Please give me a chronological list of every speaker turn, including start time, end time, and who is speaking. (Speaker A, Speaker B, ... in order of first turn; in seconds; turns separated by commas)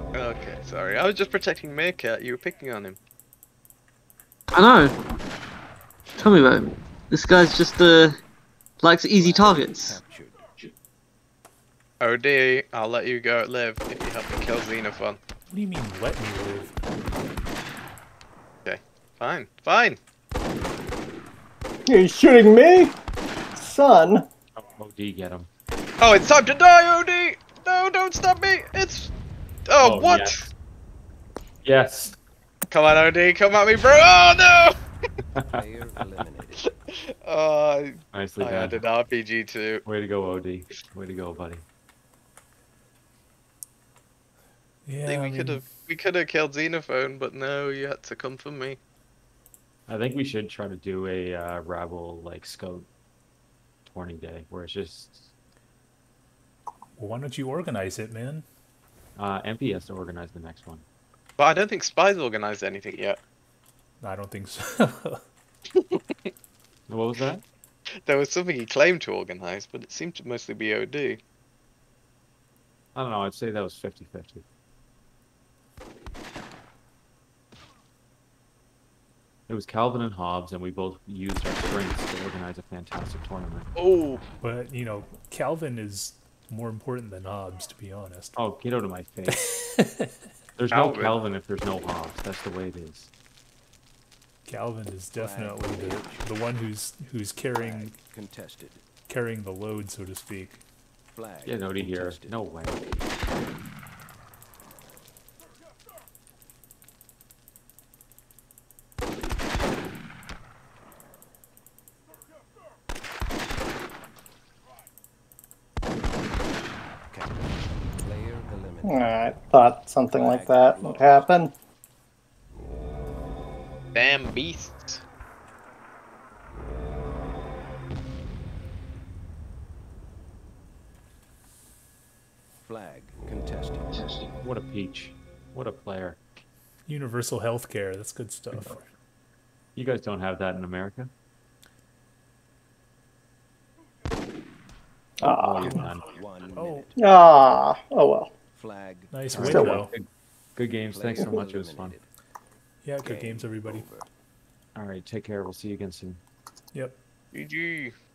Speaker A: 0.1-3.0, Speaker B: 4.5-5.0, Speaker B: 6.2-8.2, Speaker B: 8.8-10.0, Speaker C: 9.2-10.6, Speaker A: 12.0-15.2, Speaker D: 15.5-16.8, Speaker A: 18.6-20.0, Speaker E: 21.9-23.0, Speaker E: 23.6-24.3, Speaker F: 24.6-25.5, Speaker A: 26.0-29.1, Speaker A: 29.7-30.4, Speaker F: 29.8-30.5, Speaker F: 31.6-32.2, Speaker A: 32.7-34.8, Speaker F: 35.4-36.1, Speaker C: 35.5-36.7, Speaker A: 36.9-39.8, Speaker F: 38.1-38.8, Speaker F: 39.9-41.6, Speaker D: 44.9-45.6, Speaker A: 45.1-48.8, Speaker F: 49.9-52.9, Speaker F: 53.9-55.3, Speaker D: 57.0-58.5, Speaker F: 59.2-60.9, Speaker A: 61.4-63.2, Speaker D: 64.0-65.2, Speaker A: 65.7-66.0, Speaker F: 66.9-67.4, Speaker A: 68.0-71.2, Speaker F: 73.0-74.5, Speaker F: 79.5-83.7, Speaker A: 83.8-84.2, Speaker D: 84.4-88.4, Speaker F: 88.4-89.5, Speaker D: 89.3-90.2, Speaker F: 90.6-93.1, Speaker A: 90.7-91.2, Speaker D: 94.5-98.0, Speaker C: 95.2-96.2, Speaker C: 97.5-98.9, Speaker D: 99.1-100.6, Speaker C: 101.1-102.8, Speaker F: 101.4-102.8, Speaker C: 117.1-119.2, Speaker E: 118.8-121.5, Speaker C: 120.1-121.3, Speaker A: 123.9-125.0, Speaker C: 132.7-134.0, Speaker F: 134.4-136.2, Speaker D: 136.9-138.8, Speaker F: 139.8-141.1, Speaker E: 145.2-145.8, Speaker F: 145.2-146.1, Speaker C: 146.0-147.1, Speaker D: 146.5-146.9, Speaker E: 147.0-148.3, Speaker C: 148.6-149.8, Speaker D: 149.1-149.9, Speaker F: 149.3-152.0, Speaker E: 149.5-149.8, Speaker C: 150.9-152.1, Speaker D: 152.8-153.8, Speaker C: 153.0-154.1, Speaker F: 154.8-156.2, Speaker A: 157.3-157.9